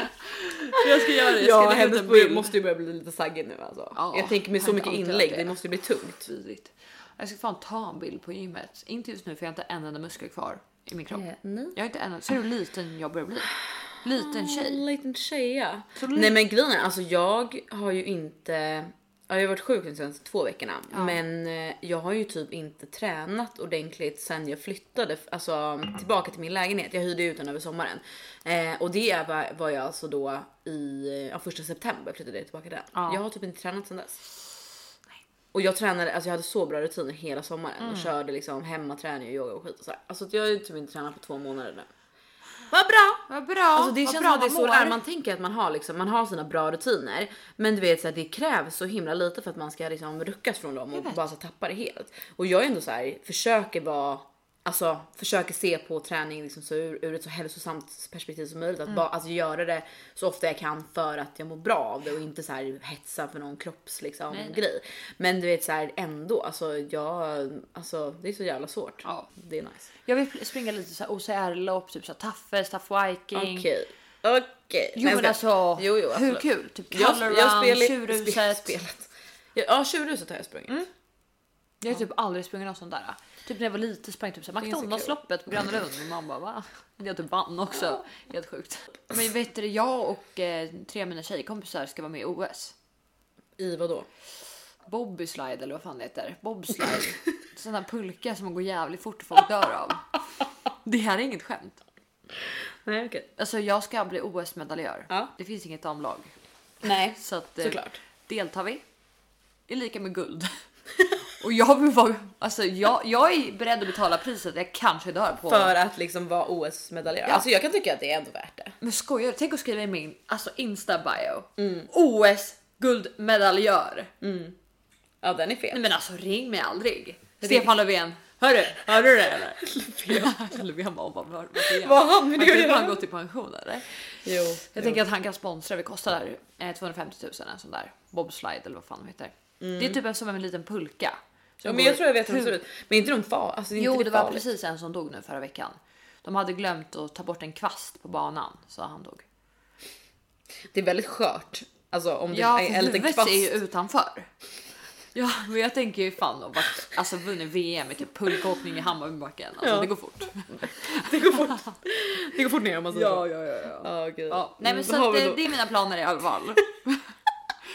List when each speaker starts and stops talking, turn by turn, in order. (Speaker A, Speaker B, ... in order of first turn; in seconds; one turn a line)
Speaker A: 0.4-6.3
Speaker B: 0.7-2.5
Speaker B: 4.0-5.6
Speaker B: 6.2-14.8
Speaker A: 11.1-11.8
Speaker A: 14.2-34.2
Speaker B: 15.9-16.4
Speaker B: 20.9-21.2
Speaker B: 32.9-33.2
Speaker A: 35.5-41.9
Speaker B: 37.8-38.1
Speaker A: 42.7-69.9
Speaker B: 43.3-45.0
Speaker B: 50.9-51.3
Speaker B: 64.3-64.6
Speaker B: 69.0-69.3
Speaker B: 70.0-73.7
Speaker A: 73.3-80.8
Speaker B: 75.0-78.8
Speaker B: 81.8-92.7
Speaker A: 84.6-85.2
Speaker A: 93.6-94.1
Speaker B: 94.8-100.1
Speaker B: 100.8-101.8
Speaker A: 102.8-103.3
Speaker B: 103.4-106.3
Speaker A: 106.8-108.0
Speaker B: 107.1-108.8
Speaker B: 109.7-110.5
Speaker B: 111.4-115.7
Speaker A: 115.5-118.7
Speaker B: 118.8-124.1
Speaker A: 121.6-121.9
Speaker A: 124.2-124.5
Speaker A: 125.2-125.8
Speaker B: 125.7-142.6
Speaker A: 127.4-127.7
Speaker A: 129.7-130.3
Speaker A: 131.6-133.0
Speaker A: 134.2-135.0
Speaker A: 139.6-140.0
Speaker A: 141.6-144.4
Speaker B: 143.8-149.2
Speaker A: 150.7-153.5
Speaker B: 152.3-154.3
Speaker B: 155.1-161.6
Speaker A: 159.6-159.9
Speaker A: 160.5-163.2
Speaker B: 162.9-167.0
Speaker A: 163.8-165.5